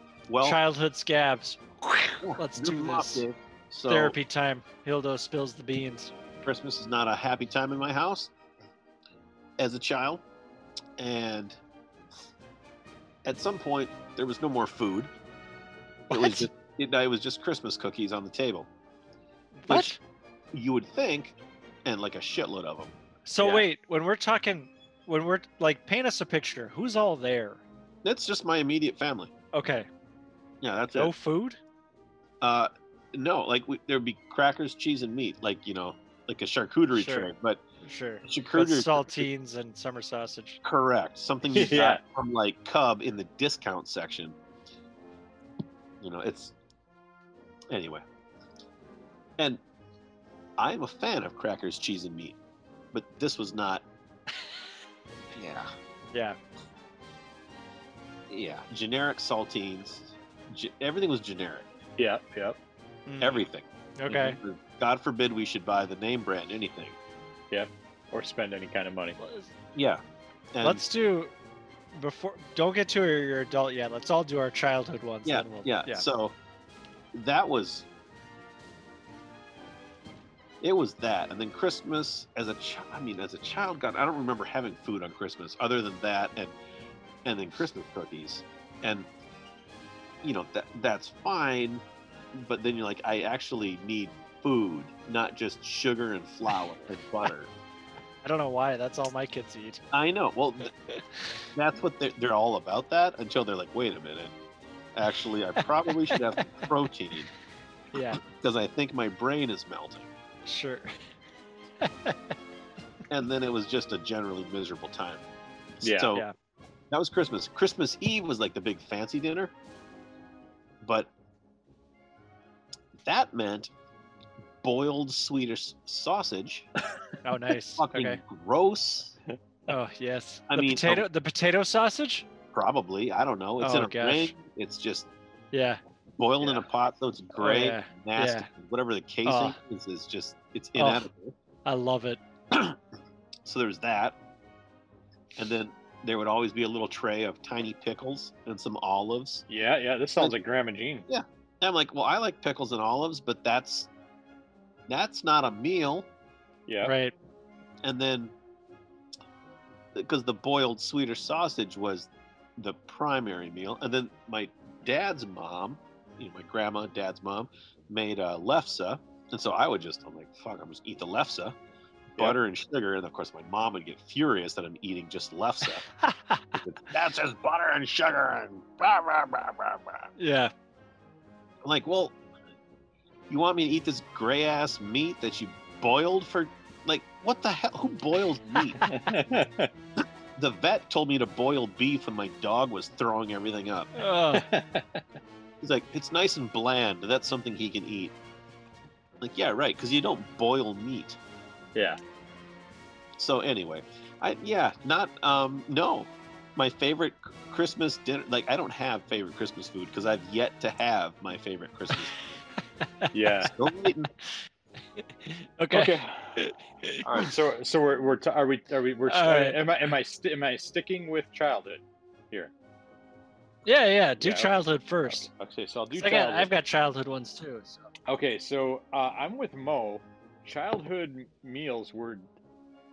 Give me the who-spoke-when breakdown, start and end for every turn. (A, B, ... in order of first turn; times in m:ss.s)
0:00.3-0:00.6 A
0:00.4-0:03.2 B
0:02.2-0:04.2 A
0:03.9-0:06.1 B
0:06.4-0:08.3 A
0:09.6-0:10.2 A
0:11.0-0:11.6 A
0:13.2-0:15.1 A
0:16.1-0:16.5 B
0:16.1-0:18.7 A
0:19.6-0:20.0 B
0:19.7-0:20.0 A
0:20.5-0:23.0 A
0:23.3-0:27.6 B
0:23.4-0:23.7 C
0:28.0-0:29.3 A
0:29.5-0:29.9 B
0:30.6-0:31.1 A
0:31.0-0:31.6 B
0:32.4-0:37.6 A
0:36.9-0:37.3 B
0:37.8-0:40.6 B
0:38.2-0:39.3 A
0:40.6-0:44.4 A
0:41.5-0:42.0 C
0:46.0-0:46.5 A
0:47.7-0:48.0 A
0:50.6-0:52.4 A
0:52.9-0:53.8 A
0:55.3-0:55.7 A
0:56.1-0:56.4 B
0:58.3-1:01.7 A
1:02.0-1:02.6 C
1:03.1-1:03.4 B
1:03.2-1:07.0 A
1:04.0-1:04.4 B
1:07.5-1:09.2 C
1:09.2-1:09.5 B
1:09.8-1:10.0 A
1:10.5-1:10.8 A
1:10.6-1:11.3 B
1:11.9-1:16.0 B
1:15.2-1:16.4 A
1:17.1-1:17.9 A
1:20.6-1:26.6 A
1:27.2-1:29.1 A
1:30.2-1:37.5 A
1:38.2-1:39.8 B
1:39.9-1:40.7 A
1:41.6-1:44.3 A
1:45.0-1:47.3 A
1:47.9-1:48.2 B
1:48.2-1:50.1 A
1:50.5-1:50.9 B
1:51.8-1:52.2 B
1:53.1-1:55.2 A
1:55.8-1:56.3 A
1:55.8-1:56.1 C
1:56.9-1:59.5 A
2:00.8-2:01.1 A
2:03.0-2:03.7 A
2:04.6-2:06.7 A
2:07.2-2:08.2 B
2:07.8-2:09.2 A
2:09.7-2:12.2 B
2:10.5-2:11.1 A
2:12.5-2:15.1 A
2:13.6-2:14.3 B
2:15.5-2:15.8 B
2:16.2-2:21.4 A
2:17.4-2:18.5 B
2:19.2-2:19.6 B
2:20.8-2:21.1 B
2:21.6-2:22.2 B
2:22.5-2:22.8 A
2:23.4-2:24.2 A
2:25.4-2:29.4 A
2:29.5-2:31.1 C
2:31.1-2:33.9 A
2:34.9-2:36.1 A
2:36.7-2:36.9 C
2:36.8-2:37.1 B
2:37.8-2:38.3 A
2:39.9-2:51.6 A
2:52.2-2:55.8 A
2:56.0-2:56.6 B
2:56.5-3:00.0 A
3:00.2-3:00.5 B
3:01.6-3:02.2 A
3:03.3-3:08.8 A
3:08.8-3:09.7 C
3:10.4-3:13.9 A
3:14.0-3:14.5 B
3:14.3-3:15.0 C
3:15.6-3:18.1 A
3:19.2-3:21.2 A
3:23.2-3:32.1 A
3:33.1-3:33.5 C
3:33.4-3:34.1 A
3:35.2-3:35.9 B
3:35.7-3:36.5 C
3:37.0-3:42.5 C
3:37.0-3:37.3 A
3:39.1-3:39.6 B
3:43.7-3:45.3 B
3:44.2-3:46.5 C
3:45.9-3:47.9 B
3:48.1-3:52.3 C